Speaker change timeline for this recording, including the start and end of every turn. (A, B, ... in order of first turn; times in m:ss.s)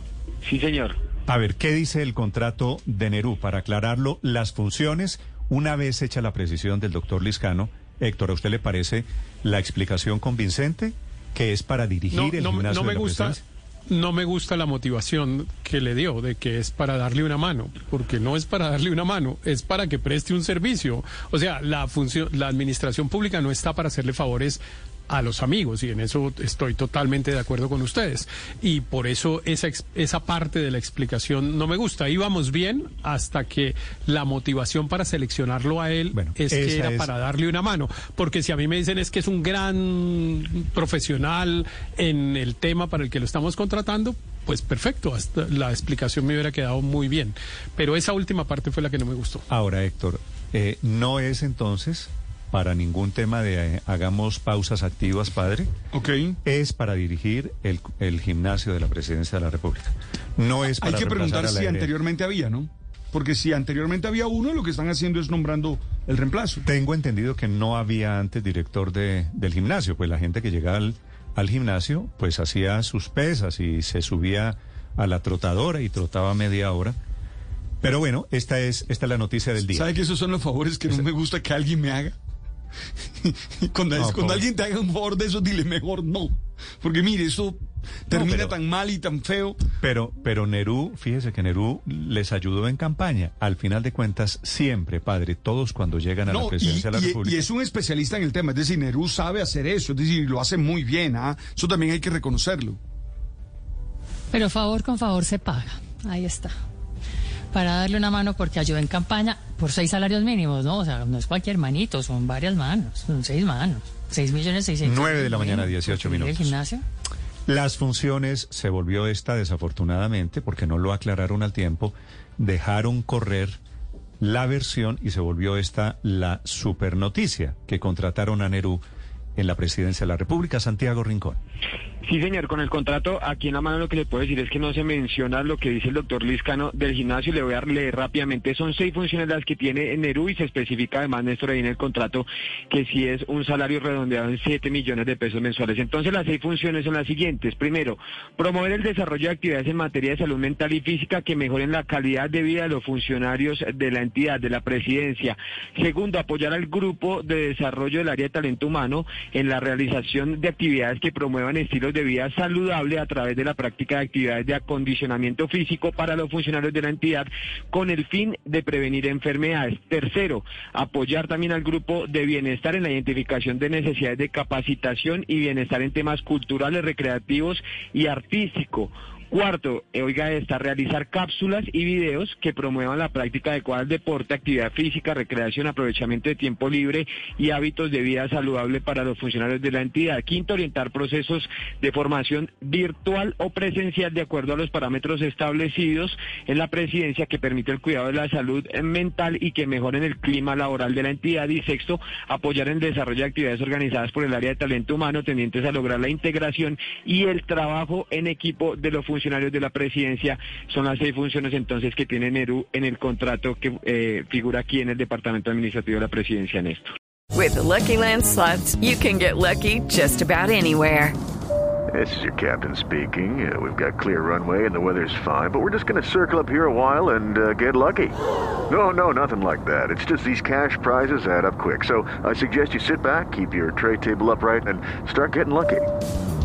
0:00.4-0:01.0 A
0:01.3-0:13.4 B
0:12.1-0:49.4 C
0:36.1-0:37.1 B
0:49.5-0:55.7 B
0:55.9-0:56.4 D
0:56.4-1:01.9 B
1:00.8-1:06.6 D
1:06.6-1:17.0 B
1:17.8-1:20.0 B
1:19.7-1:22.2 D
1:23.2-1:29.6 D
1:24.0-1:24.5 B
1:28.1-1:28.6 B
1:29.8-1:37.4 B
1:36.3-1:42.8 D
1:44.3-1:46.5 E
1:47.5-1:56.8 E
1:54.8-1:56.6 B
1:57.5-2:03.6 B
2:04.2-2:08.8 B
2:09.4-2:11.4 B
2:12.0-3:36.8 A
3:37.3-3:41.2 F
3:41.9-3:48.2 G
3:48.7-3:55.9 G